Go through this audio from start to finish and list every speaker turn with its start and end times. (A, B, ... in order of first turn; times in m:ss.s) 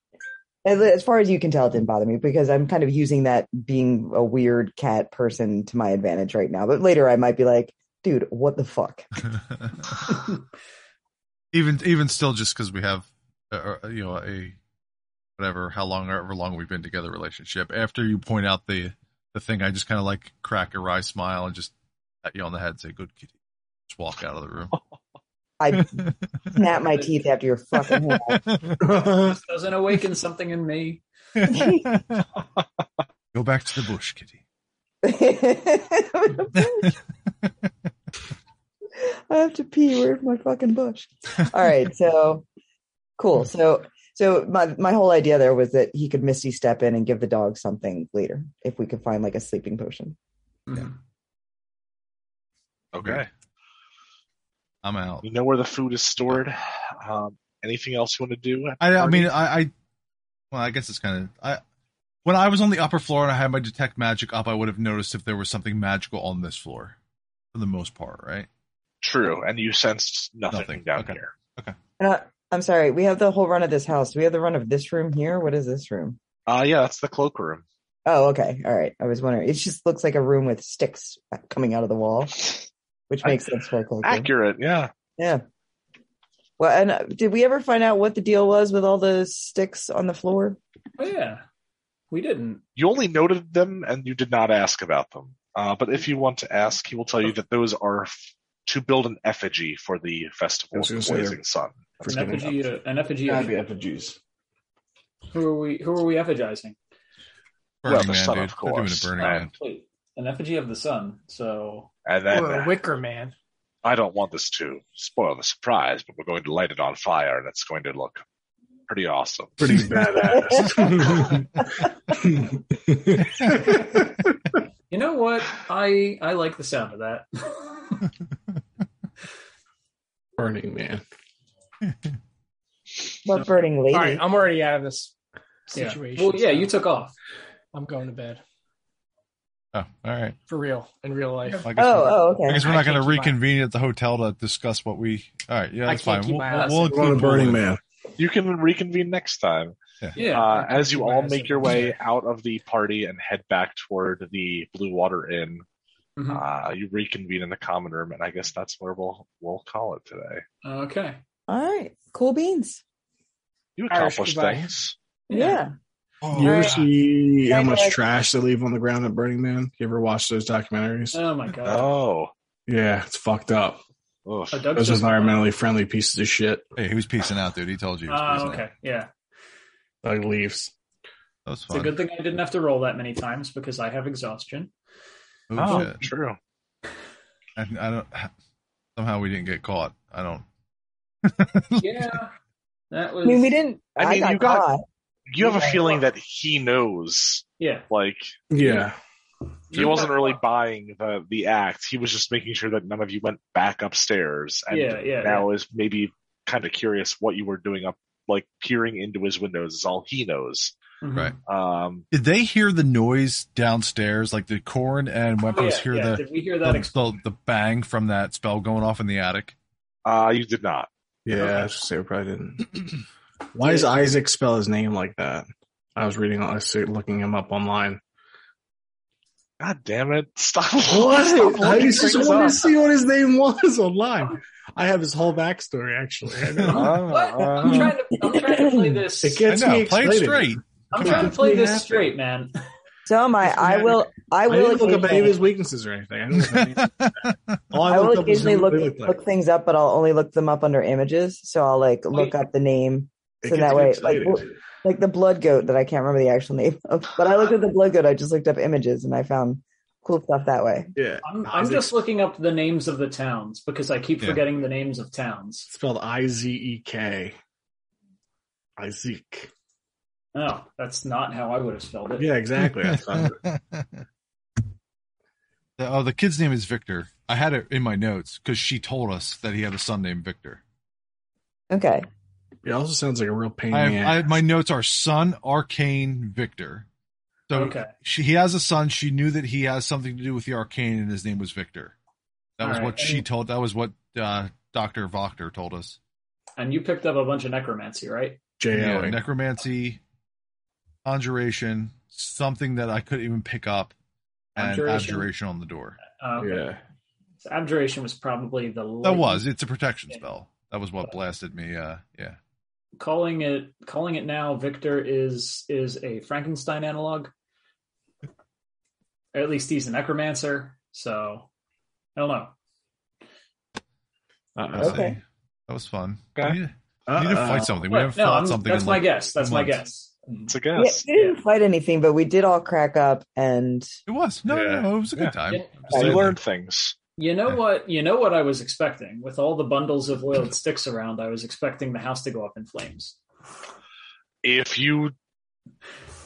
0:00.6-0:09.1 A
0:11.5-0:14.6 B
0:15.4-0:24.8 B
0:25.6-0:28.4 A
0:25.7-0:26.6 B
0:27.8-0:28.8 B
0:28.8-0:29.4 C
0:29.2-0:31.0 D
0:31.4-0:32.3 B
0:31.5-0:31.8 A
0:33.3-0:34.4 B
0:35.0-0:36.9 A
0:36.6-0:36.9 B
0:39.0-0:42.4 A
0:43.2-0:50.2 A
0:50.7-0:50.9 D
0:52.9-0:53.3 E
0:53.0-0:53.2 B
0:54.8-0:55.2 B
0:55.2-0:59.3 E
0:58.8-0:59.7 B
1:00.5-1:01.6 B
1:02.2-1:07.0 B
1:07.5-1:08.5 B
1:09.0-1:11.3 E
1:10.5-1:11.8 B
1:12.0-1:16.2 A
1:16.5-1:17.6 E
1:18.0-1:22.4 A
1:23.1-1:24.3 A
1:24.0-1:24.9 E
1:25.2-1:25.4 A
1:26.6-1:30.6 A
1:31.0-1:31.4 D
1:32.1-1:32.6 D
1:32.8-1:38.1 E
1:38.6-1:41.7 E
1:40.7-1:41.4 C
1:42.0-1:42.6 C
1:42.0-1:43.5 D
1:43.2-1:44.2 C
1:45.3-1:46.8 D
1:47.8-1:49.5 B
1:47.8-1:49.5 E
1:49.2-1:51.9 D
1:52.0-1:52.7 E
1:52.3-1:53.3 F
1:53.8-1:58.2 E
1:58.9-1:59.6 E
1:59.6-2:04.4 C
2:00.4-2:00.8 A
2:03.3-2:03.8 B
2:04.9-2:08.0 D
2:10.4-2:11.0 C
2:13.2-2:14.2 A
2:13.9-2:15.1 F
2:15.7-2:16.7 F
2:15.7-2:17.1 D
2:17.7-2:18.4 F
2:19.7-2:20.4 B
2:20.5-2:21.7 F
2:21.6-2:27.6 B
2:21.8-2:22.7 A
2:22.6-2:23.3 F
2:25.9-2:27.4 F
2:26.5-2:27.0 D
2:26.9-2:27.8 C
2:28.2-2:35.6 E
2:30.2-2:31.9 D
2:36.2-2:36.4 D
2:36.3-2:40.4 E
2:40.6-2:41.2 D
2:41.5-2:42.8 A
2:43.8-2:44.9 E
2:43.9-2:44.7 F
2:45.3-2:45.6 D
2:45.3-2:45.7 A
2:46.2-2:46.8 B
2:46.3-2:51.2 C
2:46.4-2:46.8 A
2:47.5-2:48.0 A
2:51.1-2:51.9 D
2:51.6-2:52.3 E
2:52.7-2:53.8 C
2:54.2-2:54.7 E
2:54.5-2:55.5 D
2:54.7-2:56.7 C
2:56.8-2:58.6 B
2:58.1-2:59.1 D
3:00.0-3:00.7 C
3:01.4-3:02.0 B
3:01.7-3:04.7 D
3:05.5-3:06.0 B
3:05.6-3:06.4 E
3:07.6-3:08.3 B
3:09.0-3:10.4 B
3:11.2-3:12.2 B
3:11.8-3:12.3 D
3:12.9-3:13.6 D
3:13.2-3:14.8 A
3:14.0-3:14.6 E
3:15.3-3:18.3 E
3:15.4-3:15.8 A
3:17.6-3:17.8 D
3:18.5-3:19.0 C
3:19.7-3:30.7 E
3:19.7-3:20.3 D
3:24.7-3:25.5 D
3:31.0-3:31.3 D
3:31.4-3:32.0 E
3:32.1-3:39.5 B
3:35.5-3:36.9 D
3:40.0-3:41.5 E
3:41.2-3:43.0 C
3:43.5-3:48.0 C
3:43.6-3:43.9 D
3:49.6-3:52.6 E
3:50.9-3:57.0 C
3:51.6-3:52.7 D
3:56.7-3:58.0 E
3:56.7-3:59.5 D
3:57.6-3:57.9 C
3:58.2-3:59.0 A
3:59.2-4:02.1 C
3:59.5-4:01.3 B
4:00.9-4:02.5 D
4:03.0-4:05.4 A
4:03.4-4:06.9 C
4:06.4-4:07.6 B
4:07.7-4:09.2 C
4:07.9-4:20.9 A
4:13.4-4:14.5 C
4:21.0-4:22.0 C
4:21.2-4:25.7 D
4:25.7-4:27.4 C
4:28.8-4:29.5 C
4:30.3-4:32.3 D
4:32.2-4:33.4 C
4:32.6-4:34.0 B
4:35.8-4:40.6 B
4:41.7-4:42.1 A
4:42.6-4:44.3 C
4:43.7-4:46.9 B
4:47.5-4:51.9 B
4:47.5-4:47.9 D
4:52.6-4:56.0 B
4:52.6-4:53.2 D
4:56.6-4:58.4 D
4:58.6-4:59.2 C
4:58.7-5:00.0 B
5:01.0-5:03.9 B
5:04.5-5:05.3 D
5:04.6-5:06.0 B
5:06.1-5:06.6 D
5:06.4-5:06.8 C
5:07.4-5:09.4 D
5:09.0-5:12.4 B
5:13.0-5:17.3 D
5:19.3-5:21.5 D
5:22.2-5:22.5 D
5:24.6-5:25.1 C
5:24.7-5:29.8 B
5:24.8-5:25.2 A
5:27.1-5:27.8 C
5:27.8-5:31.4 D
5:30.5-5:31.0 E
5:30.7-5:33.9 A
5:34.1-5:36.4 B
5:34.5-5:34.8 C
5:35.5-5:36.1 D
5:35.9-5:37.0 E
5:37.2-5:43.2 D
5:44.4-5:45.1 E